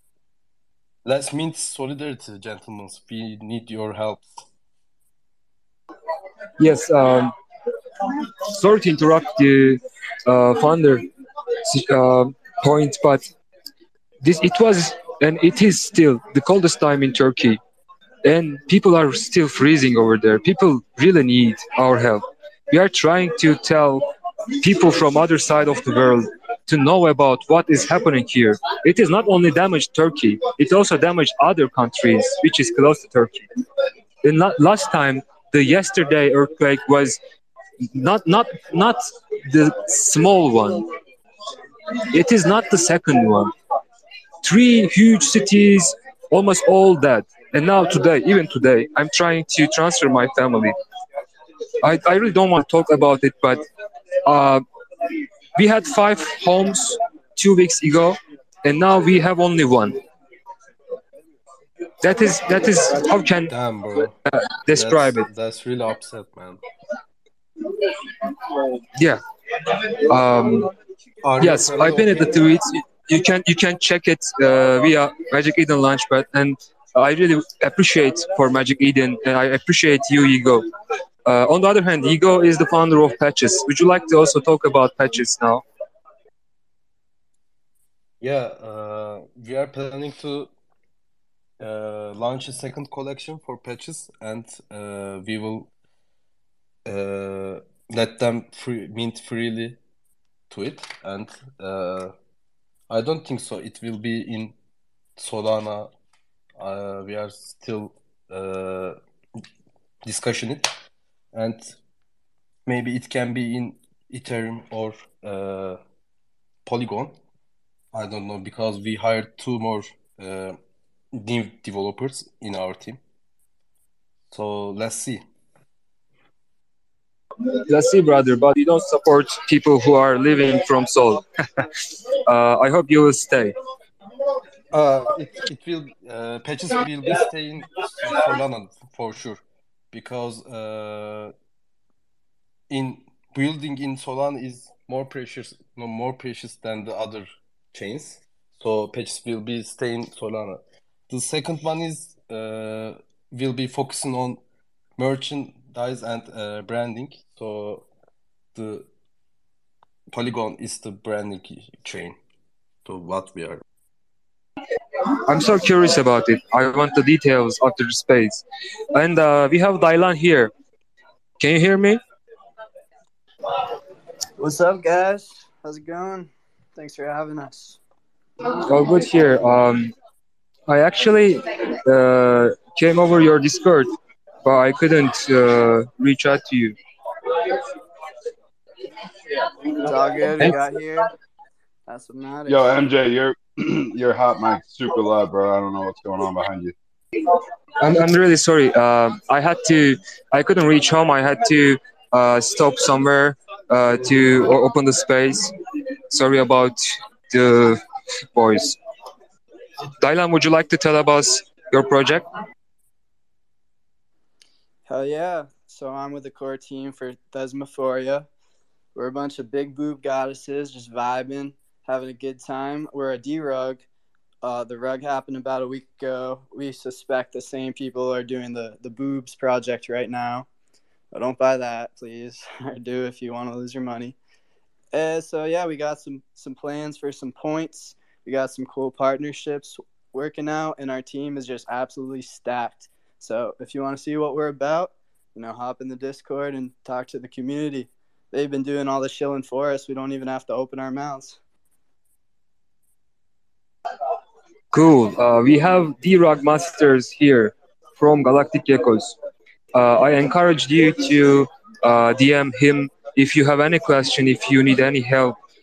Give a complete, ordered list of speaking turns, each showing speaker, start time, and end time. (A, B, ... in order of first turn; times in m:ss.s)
0:01.0-0:04.4 A
0:06.6-0:07.3 B
0:08.2-0:11.0 B
0:11.6-0:13.2 B
0:14.2-0:17.6 B
0:18.2-0:24.0 B
0:24.6-0:33.5 B
0:34.2-0:37.2 B
0:37.8-0:40.8 B
0:42.1-0:43.5 B
0:44.4-0:50.7 B
0:51.8-0:53.6 B
0:54.2-0:54.6 B
0:55.6-1:00.0 B
1:02.0-1:03.5 B
1:03.5-1:04.1 A
1:04.3-1:05.2 B
1:04.7-1:06.6 A
1:08.9-1:10.7 B
1:11.2-1:12.5 A
1:11.4-1:20.6 B
1:21.2-1:25.6 B
1:28.2-1:30.5 A
1:31.6-1:35.7 A
1:36.8-1:39.8 A
1:40.5-1:42.1 A
1:42.9-1:44.5 A
1:45.2-1:45.9 A
1:46.6-1:49.0 A
1:50.0-1:50.7 A
1:51.3-1:51.8 A
1:52.6-1:55.8 A
1:56.6-1:57.1 A
1:57.9-2:00.6 A
2:01.1-2:03.0 A
2:04.3-2:05.2 A
2:07.6-2:11.7 B
2:12.3-2:13.5 B
2:14.7-2:21.3 A
2:22.7-2:34.4 A
2:35.0-2:37.9 A
2:38.5-2:38.9 A
2:40.1-2:42.2 A
2:42.8-2:43.6 A
2:45.2-2:48.4 B
2:48.9-2:50.5 B
2:51.4-2:52.0 B
2:54.4-2:57.8 C
2:58.5-2:59.9 B
3:00.7-3:03.9 B
3:04.4-3:06.8 B
3:09.8-3:11.1 C
3:11.9-3:12.7 C
3:12.5-3:16.7 D
3:17.8-3:25.5 B
3:26.1-3:27.8 B
3:28.3-3:28.8 B
3:30.0-3:32.3 B
3:34.8-3:38.3 C
3:38.9-3:43.8 C
3:44.4-3:50.5 C
3:51.1-3:54.2 C
3:54.9-4:11.4 C
4:14.7-4:19.1 B
4:19.7-4:25.4 B